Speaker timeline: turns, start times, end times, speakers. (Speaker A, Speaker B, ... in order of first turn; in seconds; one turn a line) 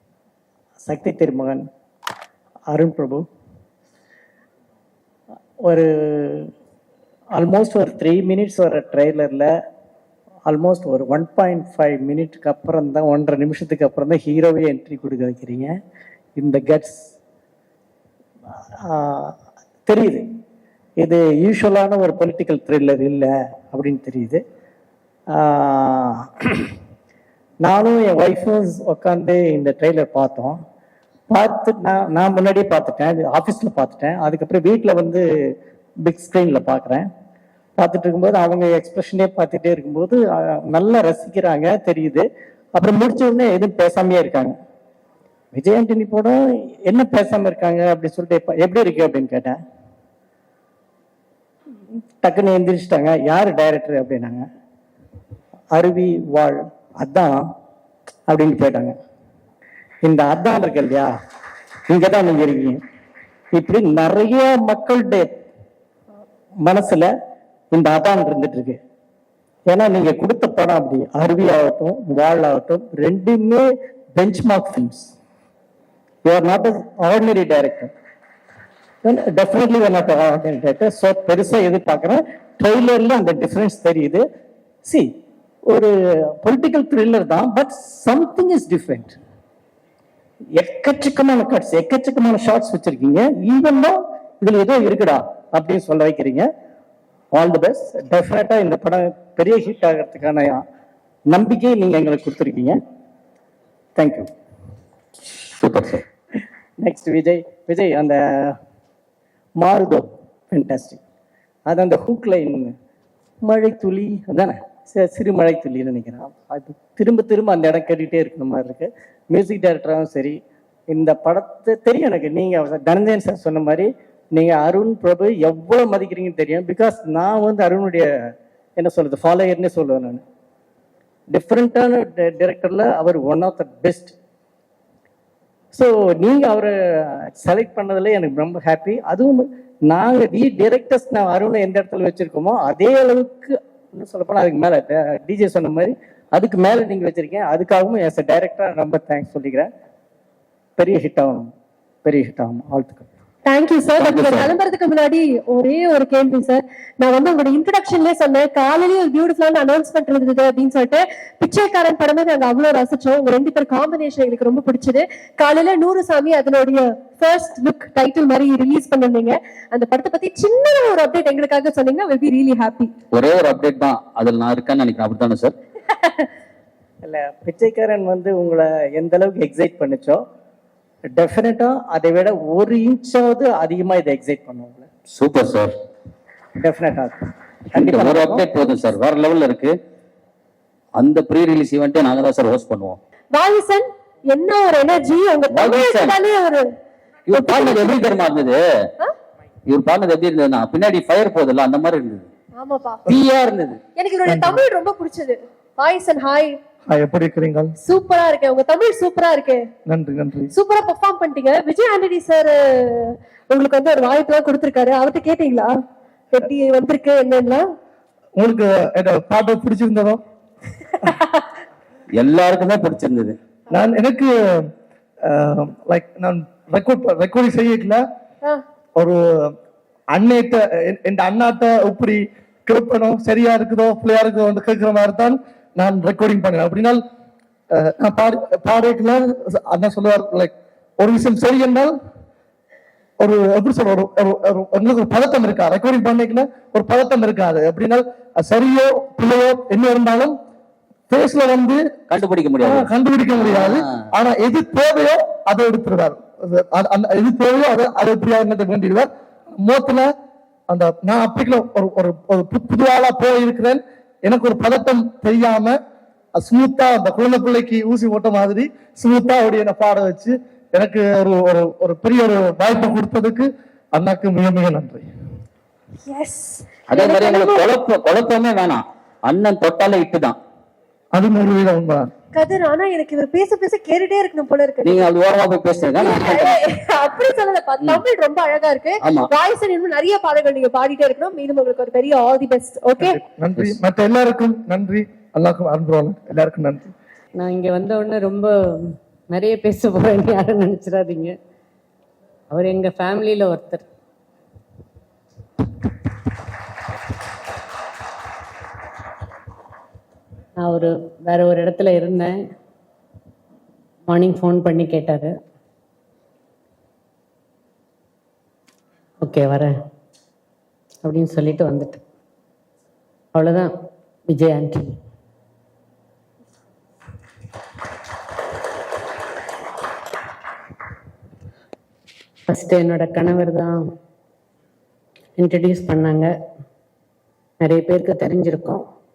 Speaker A: 0.8-1.7
Speaker A: 2.7-3.3
Speaker A: 5.6-6.5
Speaker A: 7.3-9.5
Speaker A: 10.4-15.8
Speaker A: 16.4-17.1
Speaker A: 18.8-20.3
Speaker A: 21.0-24.4
Speaker A: 25.3-26.7
Speaker A: 27.6-30.6
Speaker A: 31.3-35.3
Speaker A: 36.0-37.1
Speaker A: 37.8-44.6
Speaker A: 45.5-49.6
Speaker A: 51.9-54.5
Speaker A: 55.7-57.5
Speaker A: 58.3-59.0
Speaker A: 60.0-61.1
Speaker A: 61.9-62.8
Speaker A: 63.5-65.3
Speaker A: 66.6-67.1
Speaker A: 67.7-68.8
Speaker A: 69.7-75.1
Speaker A: 76.2-77.9
Speaker A: 79.0-84.2
Speaker A: 84.8-89.2
Speaker A: 90.5-96.5
Speaker A: 97.3-100.6
Speaker A: 101.3-102.8
Speaker A: 104.0-104.3
Speaker B: 105.6-106.0
Speaker A: 106.8-108.6
Speaker A: 109.5-111.0
Speaker A: 111.7-112.8
Speaker A: 113.4-130.2
Speaker A: 131.3-134.2
Speaker A: 135.7-149.7
Speaker A: 150.8-151.5
Speaker A: 152.0-153.1
Speaker C: 153.4-172.9
Speaker B: 154.0-154.5
Speaker B: 173.1-175.5
Speaker A: 177.0-180.2
Speaker A: 181.1-184.9
Speaker B: 185.1-185.7
Speaker A: 186.6-188.5
Speaker B: 187.7-189.7
Speaker B: 190.9-193.0
Speaker C: 193.3-196.7
Speaker B: 195.5-196.2
Speaker B: 197.3-198.6
Speaker C: 197.3-198.0
Speaker B: 199.7-202.3
Speaker C: 202.6-203.0
Speaker B: 203.1-203.8
Speaker C: 203.9-206.6
Speaker D: 204.3-204.6
Speaker D: 206.9-207.7
Speaker C: 207.8-209.6
Speaker D: 209.9-210.5
Speaker C: 210.5-215.7
Speaker C: 216.3-217.6
Speaker D: 218.3-220.2
Speaker B: 222.1-223.4
Speaker D: 223.7-224.7
Speaker D: 225.2-228.0
Speaker D: 229.0-229.5
Speaker D: 230.1-237.0
Speaker D: 237.7-241.9
Speaker D: 243.2-250.4
Speaker D: 251.1-252.0
Speaker B: 252.1-254.0
Speaker D: 252.6-260.1
Speaker D: 260.7-265.8
Speaker D: 266.3-275.1
Speaker C: 276.1-277.6
Speaker B: 276.9-280.4
Speaker D: 281.1-282.1
Speaker C: 282.3-285.1
Speaker B: 284.8-286.6
Speaker C: 285.9-293.2
Speaker B: 289.0-289.3
Speaker D: 293.0-296.9
Speaker E: 297.4-301.3
Speaker E: 302.5-303.9
Speaker E: 310.6-312.4
Speaker E: 314.1-315.4
Speaker E: 319.2-319.7
Speaker E: 321.0-322.0
Speaker E: 323.3-323.7
Speaker E: 324.3-324.9
Speaker E: 332.5-333.8
Speaker E: 335.4-336.3
Speaker E: 337.6-338.8